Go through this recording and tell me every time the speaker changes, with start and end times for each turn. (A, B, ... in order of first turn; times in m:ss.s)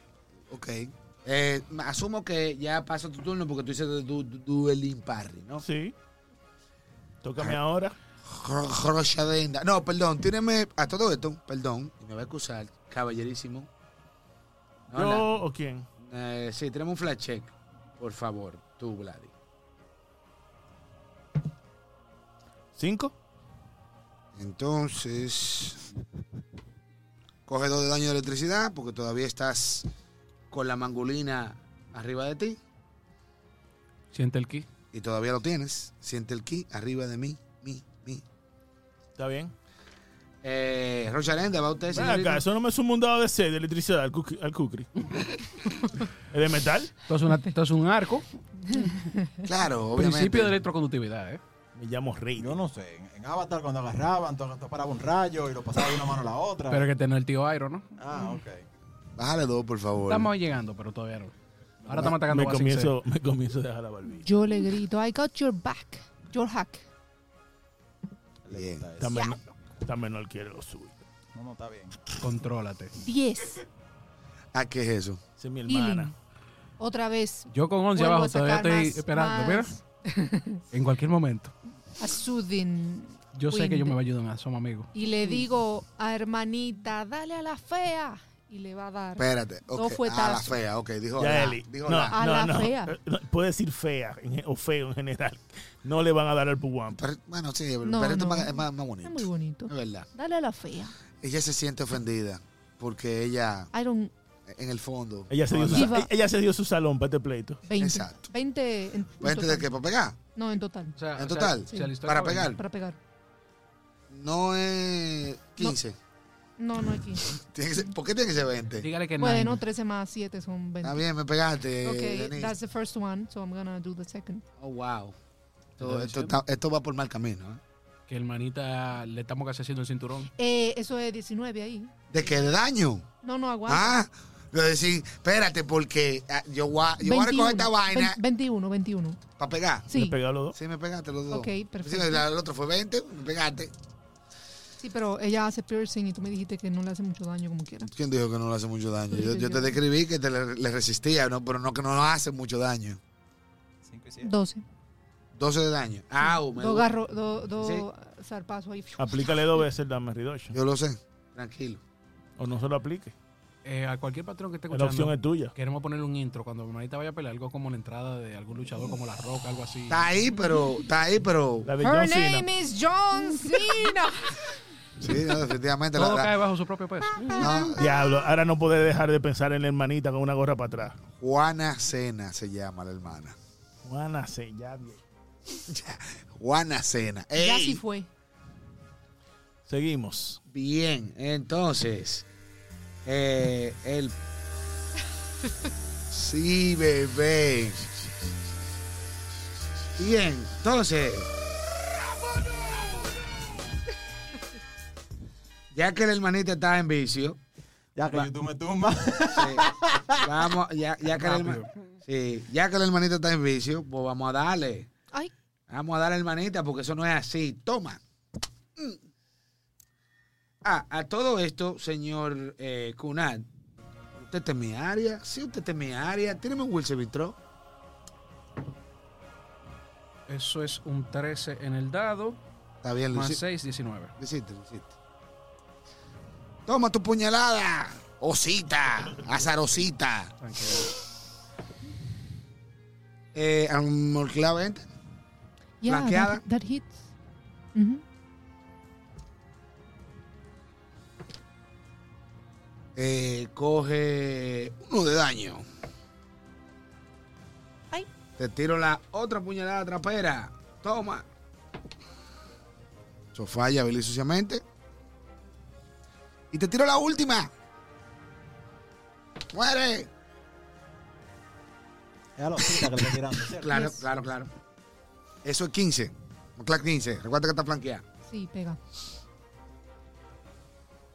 0:00.5-0:05.6 A
0:05.6-0:05.9 B
0:07.2-0:07.9 B
0:08.3-0:13.7 A
0:14.9-0:15.2 A
0:14.9-0:15.8 B
0:16.0-0:19.3 A
0:22.8-0:23.1 B
0:24.4-0:25.8 A
0:27.5-0:29.9 A
0:30.5-0:32.6 A
0:34.1-0:34.7 C
0:34.9-0:38.2 A
0:39.2-0:39.5 B
0:40.4-0:42.4 A
0:41.9-0:44.9 B
0:46.3-0:46.9 B
0:47.1-0:49.0 C
0:48.6-0:49.4 D
0:49.4-0:50.6 A
0:50.0-0:51.4 C
0:51.7-0:52.6 B
0:52.4-0:56.8 E
0:56.7-0:57.9 C
0:58.0-0:58.6 E
0:59.2-1:00.3 A
1:00.1-1:01.3 C
1:01.8-1:02.1 E
1:01.8-1:02.9 C
1:02.0-1:04.3 B
1:04.2-1:06.8 D
1:08.4-1:09.3 E
1:08.5-1:08.8 A
1:09.0-1:10.9 B
1:09.1-1:09.4 D
1:11.3-1:12.0 E
1:12.2-1:12.9 C
1:13.0-1:13.6 D
1:14.5-1:15.2 A
1:15.4-1:16.1 B
1:15.7-1:16.1 D
1:16.8-1:20.6 D
1:17.5-1:19.7 C
1:20.7-1:21.5 C
1:22.0-1:24.0 D
1:23.3-1:25.4 C
1:24.9-1:30.6 D
1:29.2-1:32.2 A
1:31.2-1:37.0 B
1:32.1-1:33.0 D
1:36.9-1:40.1 A
1:37.8-1:40.9 D
1:41.2-1:43.7 A
1:43.7-1:44.1 D
1:44.4-1:45.9 A
1:45.3-1:47.6 B
1:45.7-1:46.1 D
1:47.7-1:49.7 D
1:47.8-1:48.3 A
1:49.2-1:50.2 A
1:50.3-1:50.9 D
1:51.0-1:52.6 C
1:51.1-1:52.6 A
1:51.7-1:53.0 D
1:54.1-1:56.0 A
1:56.6-1:57.3 D
1:57.3-1:58.9 A
1:58.8-1:59.6 C
1:59.2-2:01.0 D
2:00.8-2:02.6 A
2:01.8-2:04.4 D
2:04.6-2:05.2 A
2:05.8-2:06.4 C
2:05.8-2:07.6 A
2:08.1-2:10.3 C
2:10.4-2:11.9 D
2:12.1-2:13.0 A
2:13.2-2:14.0 D
2:13.6-2:18.2 A
2:17.0-2:19.2 D
2:19.4-2:19.9 A
2:19.9-2:20.2 D
2:19.9-2:20.6 B
2:20.5-2:23.7 A
2:21.3-2:22.3 D
2:24.8-2:27.9 D
2:27.9-2:33.0 A
2:29.1-2:29.8 D
2:33.8-2:34.3 E
2:34.2-2:34.6 D
2:35.3-2:36.9 A
2:36.2-2:39.6 D
2:37.6-2:37.8 A
2:39.0-2:40.5 B
2:40.5-2:41.8 A
2:42.4-2:43.1 B
2:43.6-2:50.0 C
2:44.7-2:45.5 B
2:49.9-2:51.7 A
2:51.6-2:52.5 B
2:51.8-2:54.5 D
2:55.0-2:56.3 A
2:55.9-2:57.5 C
2:57.2-2:57.7 D
2:57.3-2:58.0 A
2:57.8-3:01.0 B
3:01.1-3:03.4 A
3:03.8-3:05.0 B
3:05.7-3:07.8 A
3:07.4-3:08.1 D
3:09.7-3:10.4 B
3:10.5-3:12.3 A
3:13.0-3:14.1 A
3:16.1-3:17.9 A
3:20.0-3:21.3 A
3:25.7-3:27.4 A
3:28.0-3:30.3 E
3:29.3-3:34.9 A
3:31.1-3:31.7 C
3:35.7-3:38.0 A
3:40.6-3:43.5 A
3:44.2-3:47.4 A
3:50.3-3:52.4 C
3:52.8-3:53.4 A
3:53.1-3:54.1 C
3:54.2-3:54.9 A
3:56.6-4:00.3 A
3:59.0-3:59.5 B
4:00.4-4:00.9 C
4:03.3-4:04.9 A
4:05.8-4:07.0 D
4:05.8-4:06.4 A
4:07.7-4:08.0 D
4:13.0-4:15.6 A
4:18.4-4:21.3 A
4:23.3-4:24.6 A
4:26.5-4:27.5 A
4:29.5-4:30.1 A
4:32.4-4:33.9 E
4:33.5-4:34.5 A
4:33.7-4:34.0 D
4:35.4-4:38.0 A
4:38.3-4:38.8 D